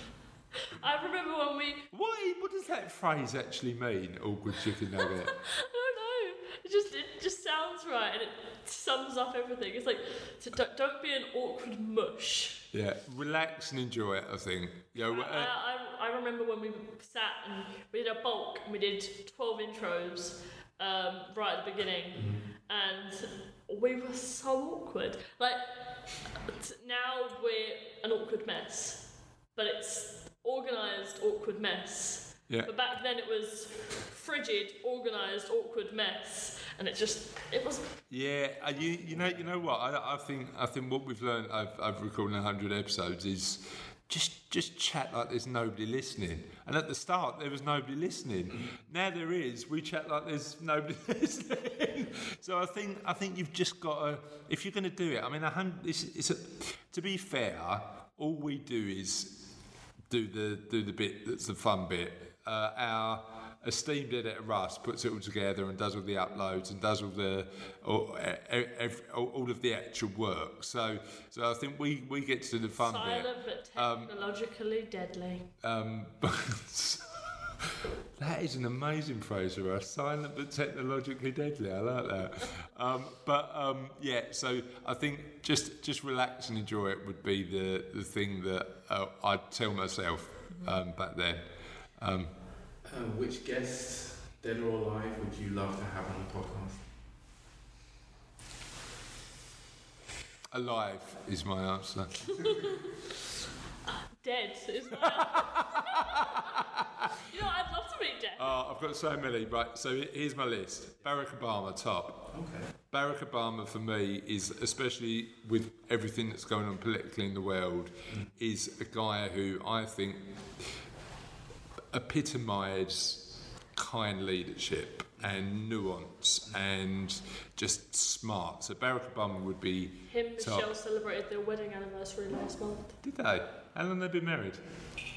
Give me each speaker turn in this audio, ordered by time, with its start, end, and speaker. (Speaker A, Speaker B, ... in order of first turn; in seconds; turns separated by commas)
Speaker A: 0.6-1.9, Speaker B: 1.9-5.3, Speaker A: 5.0-12.7, Speaker B: 12.7-15.5, Speaker A: 15.0-38.0, Speaker C: 22.1-22.4, Speaker B: 38.1-59.4, Speaker C: 39.1-39.5, Speaker B: 60.1-74.1, Speaker A: 66.3-66.6, Speaker A: 72.8-75.5, Speaker B: 75.6-92.3, Speaker C: 92.8-96.8, Speaker B: 100.5-102.5, Speaker A: 102.5-102.8, Speaker A: 104.2-106.6, Speaker B: 105.2-107.0, Speaker A: 107.2-108.6, Speaker B: 108.4-112.3, Speaker C: 112.3-112.7, Speaker B: 112.9-120.6, Speaker B: 121.9-130.7, Speaker C: 125.2-125.5, Speaker A: 130.1-133.0, Speaker B: 133.0-134.6